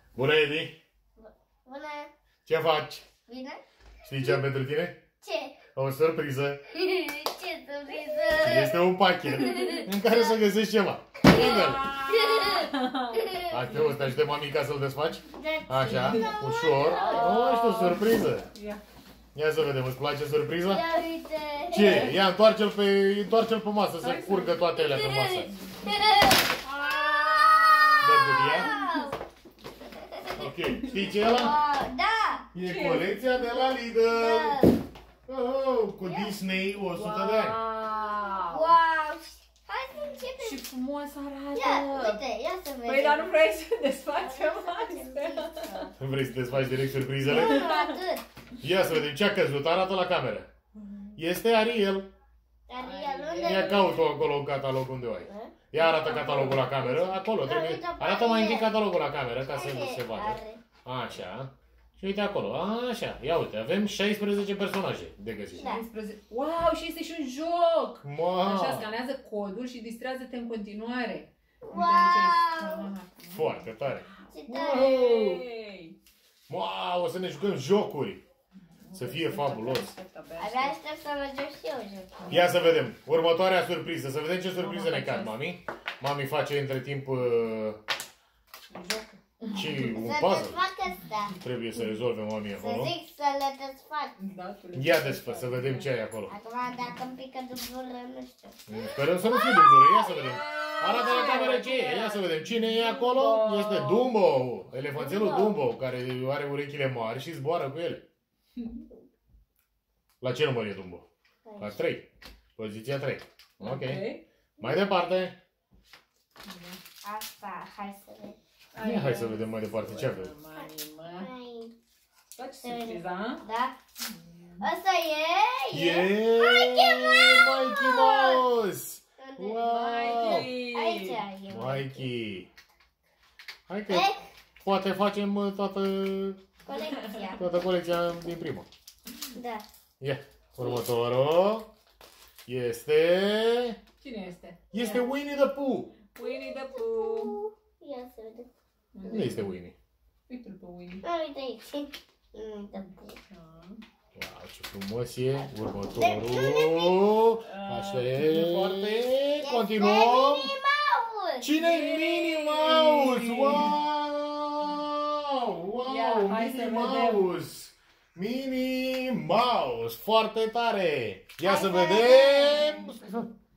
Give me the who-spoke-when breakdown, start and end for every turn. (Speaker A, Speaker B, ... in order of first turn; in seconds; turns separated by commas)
Speaker A: 0.1-0.8, Speaker B: 1.2-2.1, Speaker A: 2.5-3.1, Speaker B: 3.3-3.6, Speaker A: 4.0-5.0, Speaker B: 5.2-5.6, Speaker A: 5.7-6.6, Speaker B: 6.7-8.8, Speaker A: 8.4-11.9, Speaker B: 9.3-10.4, Speaker B: 11.2-13.6, Speaker C: 11.3-14.2, Speaker A: 13.5-18.5, Speaker B: 15.3-18.0, Speaker C: 15.8-18.0, Speaker C: 18.5-18.8, Speaker A: 19.4-20.9, Speaker B: 20.7-22.2, Speaker A: 21.7-25.5, Speaker C: 24.0-24.6, Speaker B: 24.7-29.1, Speaker C: 26.6-29.1, Speaker A: 28.0-28.7, Speaker B: 30.1-30.5, Speaker A: 30.4-31.6, Speaker B: 31.1-32.5, Speaker A: 32.5-34.6, Speaker C: 32.6-33.1, Speaker B: 34.0-34.8, Speaker A: 35.3-37.6, Speaker B: 36.0-36.4, Speaker C: 36.9-38.8, Speaker B: 38.1-40.6, Speaker C: 40.4-42.2, Speaker B: 41.5-43.4, Speaker C: 42.9-45.9, Speaker B: 44.1-45.9, Speaker A: 46.0-47.7, Speaker C: 47.3-48.0, Speaker B: 47.3-48.2, Speaker A: 48.6-50.5, Speaker C: 50.8-51.2, Speaker A: 51.2-52.1, Speaker B: 52.7-54.0, Speaker C: 52.8-54.0, Speaker A: 53.4-65.7, Speaker B: 55.2-55.7, Speaker C: 55.8-57.2, Speaker B: 57.4-58.7, Speaker B: 59.5-60.6, Speaker B: 65.5-65.8, Speaker C: 65.5-76.0, Speaker A: 68.0-68.9, Speaker B: 71.6-72.9, Speaker A: 73.3-75.4, Speaker B: 74.3-74.9, Speaker A: 76.5-78.2, Speaker C: 78.8-80.8, Speaker A: 78.9-79.9, Speaker B: 80.4-82.3, Speaker C: 82.2-82.8, Speaker A: 82.3-87.8, Speaker C: 84.6-85.4, Speaker C: 88.7-89.9, Speaker A: 89.5-90.6, Speaker B: 89.9-91.4, Speaker A: 91.4-92.9, Speaker B: 92.6-94.2, Speaker C: 94.2-95.9, Speaker A: 94.8-96.3, Speaker B: 96.3-98.6, Speaker A: 98.7-108.0, Speaker B: 99.2-101.5, Speaker C: 100.1-104.1, Speaker B: 105.0-105.6, Speaker C: 108.6-108.8, Speaker A: 110.2-111.1, Speaker B: 111.5-111.8, Speaker A: 111.6-114.0, Speaker C: 113.6-114.2, Speaker A: 114.6-115.4, Speaker C: 116.5-116.8, Speaker B: 117.0-118.4, Speaker C: 118.7-121.3, Speaker A: 118.8-120.3, Speaker B: 120.5-121.7, Speaker C: 122.3-123.4, Speaker B: 122.6-123.8, Speaker C: 124.1-124.7, Speaker B: 124.6-128.4, Speaker A: 125.7-130.5, Speaker B: 129.2-129.7, Speaker C: 129.6-131.2, Speaker B: 130.6-132.1, Speaker A: 131.5-132.5, Speaker A: 133.7-134.1, Speaker B: 133.9-134.2, Speaker A: 134.6-136.4, Speaker B: 136.7-137.4, Speaker C: 136.8-137.3, Speaker A: 137.4-138.7, Speaker B: 139.3-139.7, Speaker A: 140.0-141.7, Speaker A: 142.5-143.8, Speaker C: 144.0-145.0, Speaker A: 144.7-146.0, Speaker C: 146.1-147.3, Speaker B: 146.2-148.5, Speaker C: 148.9-149.6, Speaker A: 149.1-149.8, Speaker C: 150.3-151.0, Speaker B: 151.0-153.2, Speaker C: 152.8-153.8, Speaker A: 154.2-160.5, Speaker B: 155.4-157.1, Speaker C: 157.4-159.1, Speaker B: 159.4-161.5, Speaker A: 161.4-173.3, Speaker C: 161.6-163.8, Speaker C: 165.8-167.3, Speaker B: 171.4-172.8